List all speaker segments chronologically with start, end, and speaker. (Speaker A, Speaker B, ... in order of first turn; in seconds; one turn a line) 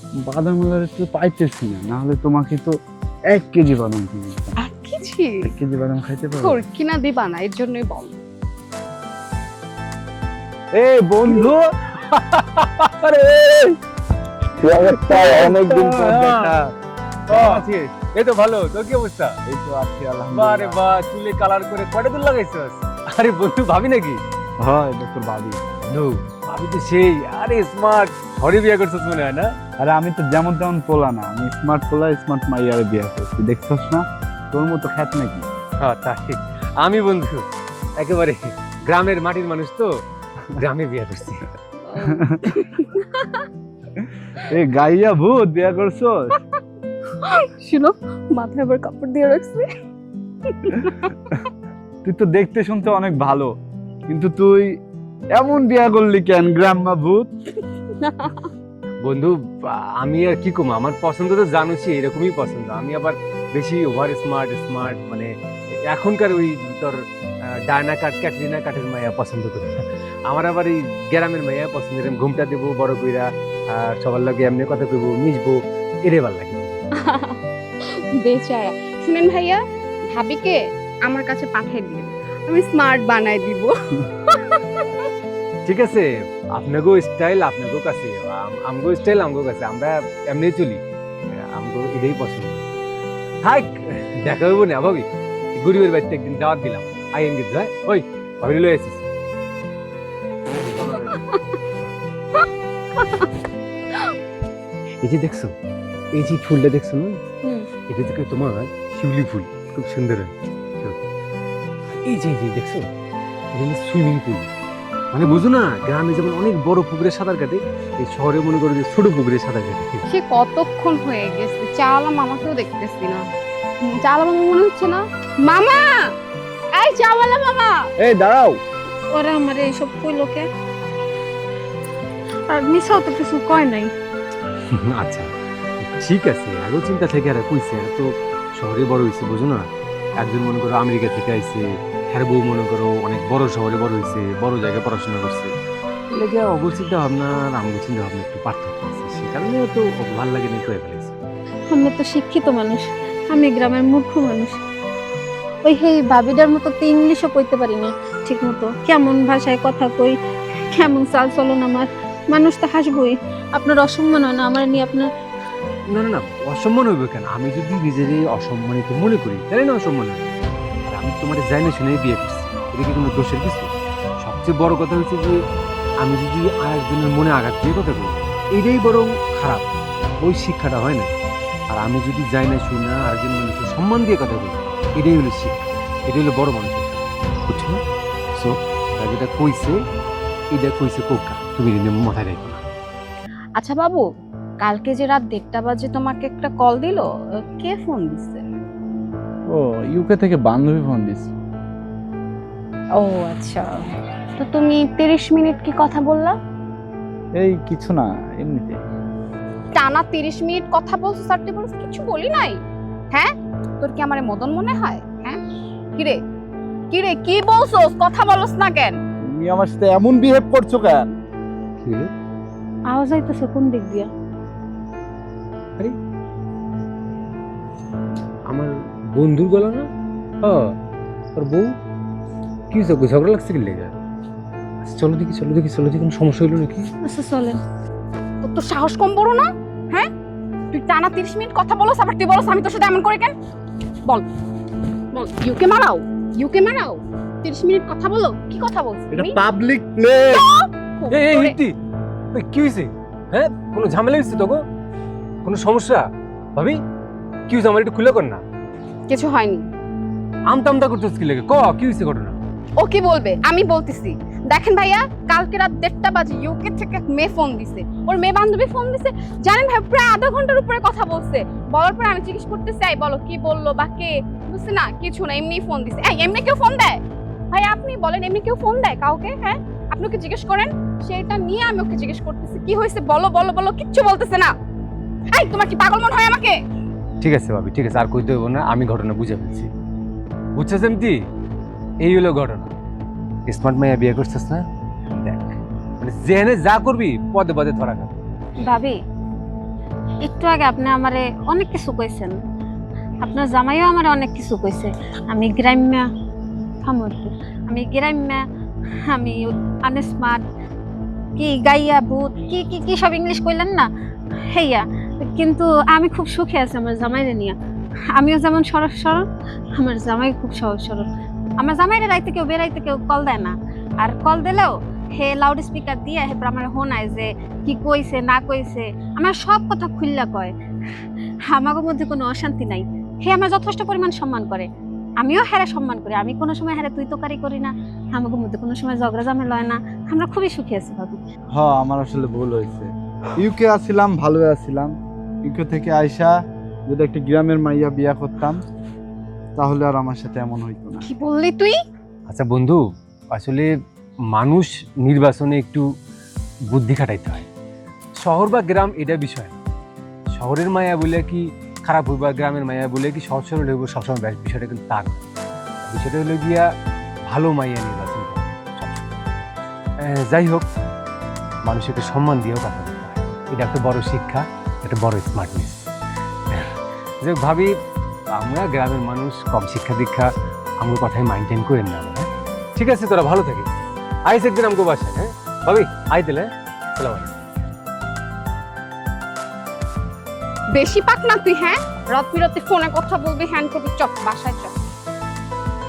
Speaker A: 0.2-2.7
Speaker A: 3.3-4.6
Speaker B: 4.6-5.4
Speaker A: 5.4-6.6
Speaker B: 6.4-8.2
Speaker A: 10.7-11.6
Speaker C: 12.0-13.0
Speaker A: 13.0-13.7
Speaker A: 14.6-16.7
Speaker C: 15.1-16.6
Speaker A: 17.3-17.7
Speaker C: 17.3-19.3
Speaker A: 19.5-20.8
Speaker C: 20.3-24.2
Speaker A: 24.6-25.6
Speaker C: 25.9-29.5
Speaker A: 29.8-35.4
Speaker C: 35.8-37.4
Speaker C: 38.0-39.9
Speaker C: 40.5-41.5
Speaker B: 41.9-43.5
Speaker A: 42.0-42.5
Speaker A: 44.0-46.3
Speaker B: 47.2-49.7
Speaker B: 50.5-51.4
Speaker A: 52.0-53.5
Speaker A: 54.1-54.7
Speaker A: 55.3-57.3
Speaker B: 58.0-58.5
Speaker C: 59.0-65.3
Speaker C: 65.9-66.9
Speaker C: 67.7-76.8
Speaker B: 77.0-85.0
Speaker C: 85.7-90.8
Speaker C: 91.3-92.6
Speaker C: 93.4-95.0
Speaker C: 95.5-99.0
Speaker B: 103.0-103.3
Speaker C: 105.0-105.5
Speaker C: 106.1-107.2
Speaker C: 107.9-111.0
Speaker C: 112.0-112.8
Speaker C: 113.5-114.5
Speaker C: 115.1-120.0
Speaker B: 120.1-123.2
Speaker B: 123.9-125.9
Speaker B: 126.8-127.7
Speaker A: 128.0-128.6
Speaker D: 129.1-130.5
Speaker D: 132.5-133.9
Speaker C: 134.7-135.3
Speaker C: 135.8-138.0
Speaker C: 138.6-139.7
Speaker C: 140.2-145.5
Speaker C: 146.1-151.1
Speaker D: 151.7-154.6
Speaker D: 155.6-160.1
Speaker D: 160.7-165.1
Speaker C: 165.9-170.2
Speaker C: 170.9-173.7
Speaker C: 174.2-175.4
Speaker C: 176.0-179.7
Speaker C: 180.2-181.1
Speaker C: 181.7-187.8
Speaker C: 188.3-189.8
Speaker C: 190.5-192.6
Speaker B: 193.6-194.0
Speaker B: 194.6-198.5
Speaker A: 199.5-201.3
Speaker B: 203.0-203.7
Speaker B: 204.4-206.3
Speaker A: 207.3-208.8
Speaker B: 209.7-212.6
Speaker B: 213.1-215.4
Speaker B: 216.9-219.0
Speaker A: 219.2-221.1
Speaker C: 221.8-222.1
Speaker D: 222.9-224.1
Speaker C: 228.5-229.9
Speaker C: 230.4-230.7
Speaker C: 231.3-231.7
Speaker C: 232.7-234.0
Speaker C: 234.8-236.9
Speaker D: 237.0-237.6
Speaker B: 238.4-240.1
Speaker B: 240.7-243.3
Speaker B: 245.1-249.4
Speaker A: 249.1-250.4
Speaker B: 250.3-251.6
Speaker C: 251.1-251.7
Speaker C: 252.3-254.6
Speaker C: 255.4-256.8
Speaker C: 257.5-258.4
Speaker B: 259.1-259.6
Speaker C: 260.5-262.4
Speaker B: 262.8-284.5
Speaker B: 285.3-286.6
Speaker C: 287.2-289.7
Speaker C: 290.5-291.2
Speaker C: 292.0-292.7
Speaker C: 293.5-298.2
Speaker D: 298.6-299.0
Speaker D: 300.2-302.4
Speaker D: 303.2-306.1
Speaker D: 306.8-308.4
Speaker D: 309.1-310.4
Speaker D: 311.4-313.9
Speaker D: 314.5-317.5
Speaker D: 318.1-319.2
Speaker D: 319.8-321.1
Speaker D: 321.6-330.5
Speaker D: 331.5-334.7
Speaker D: 335.2-341.2
Speaker A: 341.5-344.9
Speaker A: 345.4-346.3
Speaker A: 346.9-348.6
Speaker A: 349.6-351.1
Speaker B: 351.0-351.8
Speaker C: 352.3-352.8
Speaker C: 353.3-353.7
Speaker C: 354.3-355.8
Speaker C: 356.7-357.5
Speaker C: 358.2-359.6
Speaker C: 360.3-365.2
Speaker C: 365.9-366.6
Speaker C: 367.3-369.2
Speaker C: 370.0-370.6
Speaker C: 371.6-375.9
Speaker C: 376.5-377.7
Speaker C: 378.3-383.7
Speaker C: 384.2-387.3
Speaker B: 390.7-394.7